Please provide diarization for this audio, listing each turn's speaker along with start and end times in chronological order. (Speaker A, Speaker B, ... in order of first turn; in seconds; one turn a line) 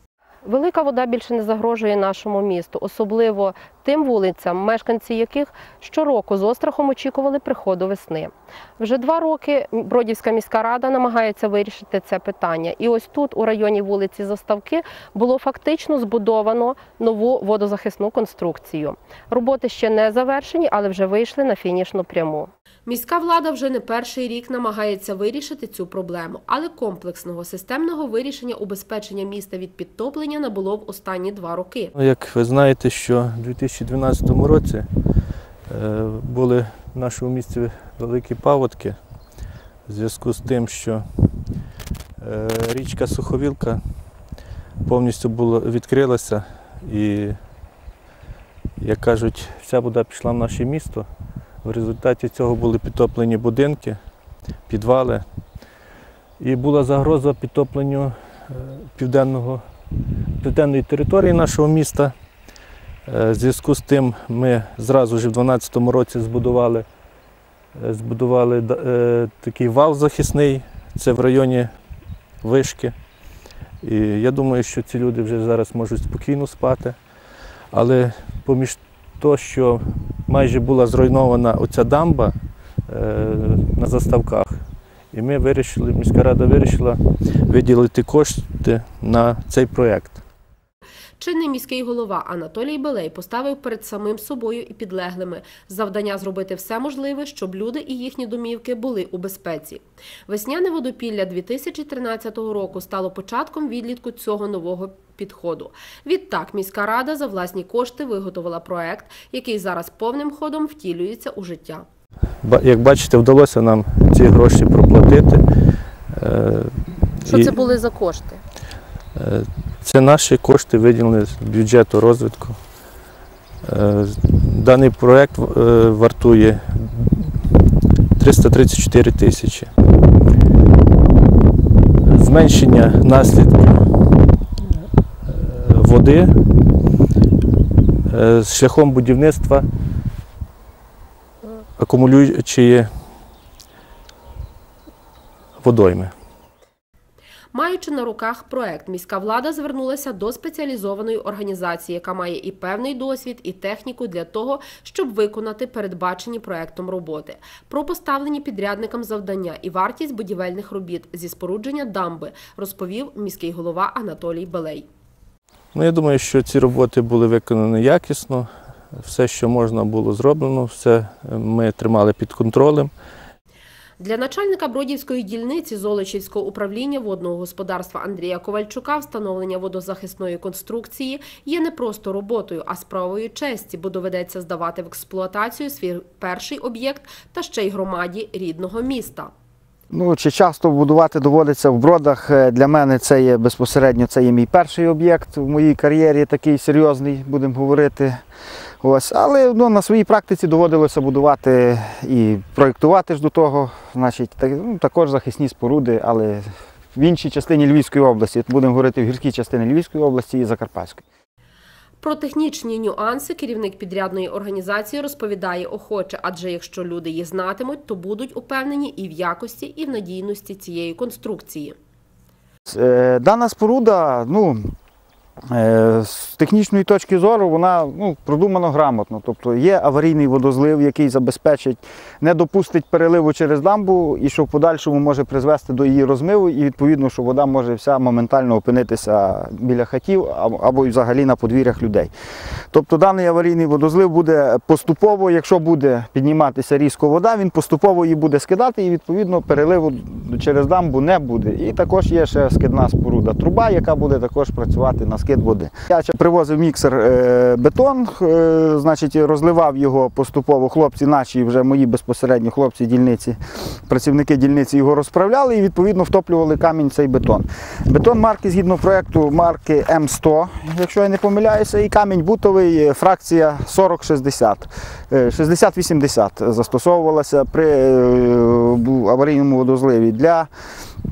Speaker A: 0.5-31.9
Speaker B: 32.0-34.9
Speaker B: 35.7-39.0
Speaker B: 39.9-41.0
Speaker B: 42.2-43.8
Speaker B: 44.9-47.4
Speaker B: 48.8-51.1
Speaker B: 51.6-54.0
Speaker B: 54.7-55.2
Speaker B: 56.4-59.6
Speaker B: 60.4-62.1
Speaker B: 63.1-66.9
Speaker B: 67.8-71.7
Speaker B: 72.4-72.9
Speaker B: 73.8-77.0
Speaker B: 77.7-82.3
Speaker B: 82.9-84.6
Speaker B: 85.1-90.2
Speaker A: 91.2-111.8
Speaker B: 112.4-115.4
Speaker B: 116.1-117.6
Speaker A: 117.3-118.4
Speaker B: 119.2-122.6
Speaker B: 123.6-127.4
Speaker B: 128.2-129.7
Speaker B: 132.0-133.8
Speaker B: 135.3-136.4
Speaker B: 138.1-139.7
Speaker B: 141.8-142.9
Speaker B: 145.6-146.1
Speaker A: 147.5-164.9
Speaker B: 165.7-172.9
Speaker A: 174.0-189.3
Speaker C: 189.9-198.2
Speaker C: 198.8-211.1
Speaker A: 212.0-221.8
Speaker C: 222.7-224.6
Speaker C: 225.5-242.1
Speaker C: 242.7-280.5